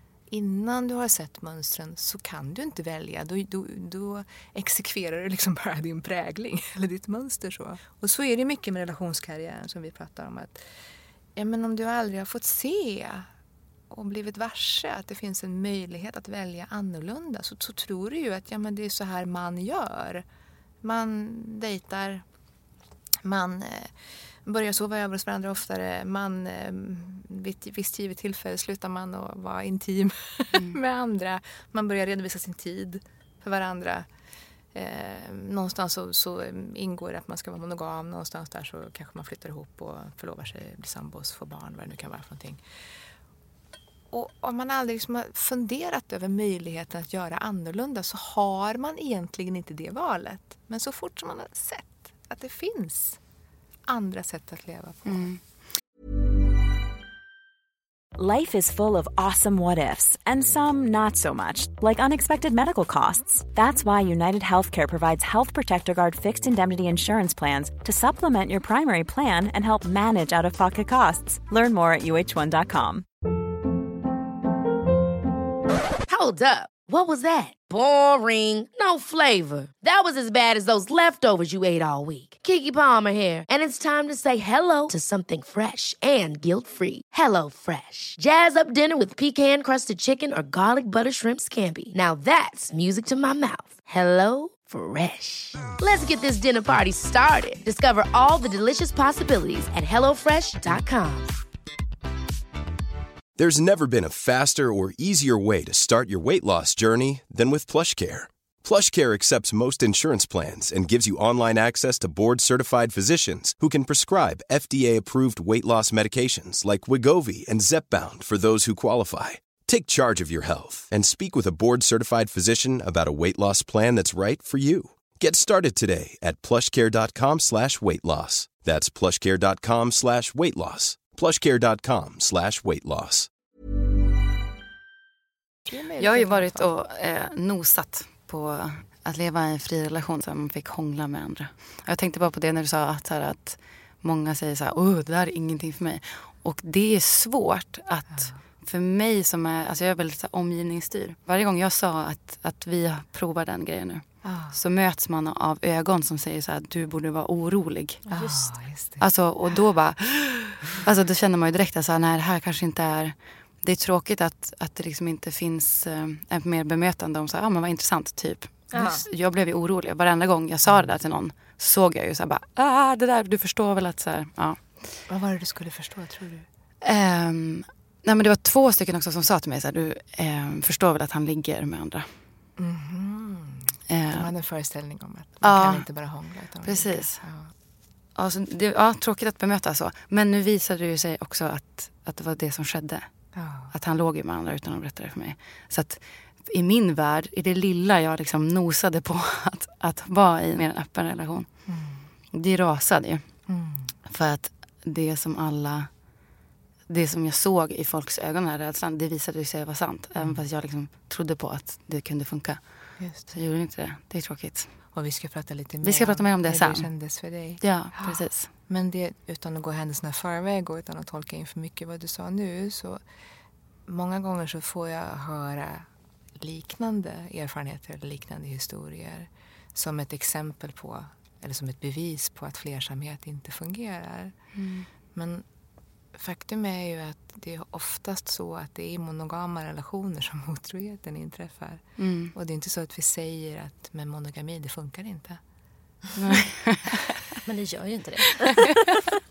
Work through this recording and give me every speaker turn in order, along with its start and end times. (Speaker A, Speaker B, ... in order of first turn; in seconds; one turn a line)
Speaker A: 0.3-10.6
Speaker A: 11.4-13.3
Speaker A: 13.9-20.2
Speaker A: 20.8-22.2
Speaker A: 23.2-23.9
Speaker A: 24.5-34.1
Speaker A: 34.7-42.6
Speaker A: 44.1-53.2
Speaker A: 53.9-55.3
Speaker B: 55.1-55.4
Speaker C: 58.1-73.1
Speaker D: 76.1-101.4
Speaker E: 103.4-133.3
Speaker A: 135.7-136.7
Speaker B: 136.0-158.2
Speaker A: 148.1-148.4
Speaker A: 154.2-154.6
Speaker F: 158.1-158.4
Speaker A: 158.1-159.1
Speaker B: 159.0-175.0
Speaker F: 168.7-169.0
Speaker A: 175.1-176.5
Speaker B: 176.8-182.2
Speaker A: 182.6-187.5
Speaker B: 183.9-184.3
Speaker B: 185.4-185.9
Speaker B: 186.6-187.2
Speaker B: 188.2-201.7
Speaker A: 193.3-193.7
Speaker A: 201.7-202.1
Speaker B: 202.3-203.5
Speaker A: 203.5-203.9
Speaker B: 204.1-205.9
Speaker B: 206.9-214.7
Speaker A: 210.2-210.4
Speaker A: 213.0-213.3
Speaker A: 214.9-223.0
Speaker B: 215.8-216.9
Speaker B: 217.6-218.5
Speaker A: 223.9-225.9
Speaker A: 226.4-234.3
Speaker B: 234.6-234.9
Speaker A: 235.1-235.4
Speaker A: 236.1-245.4
Speaker B: 242.0-242.3
Speaker B: 246.2-247.0
Speaker F: 247.4-248.8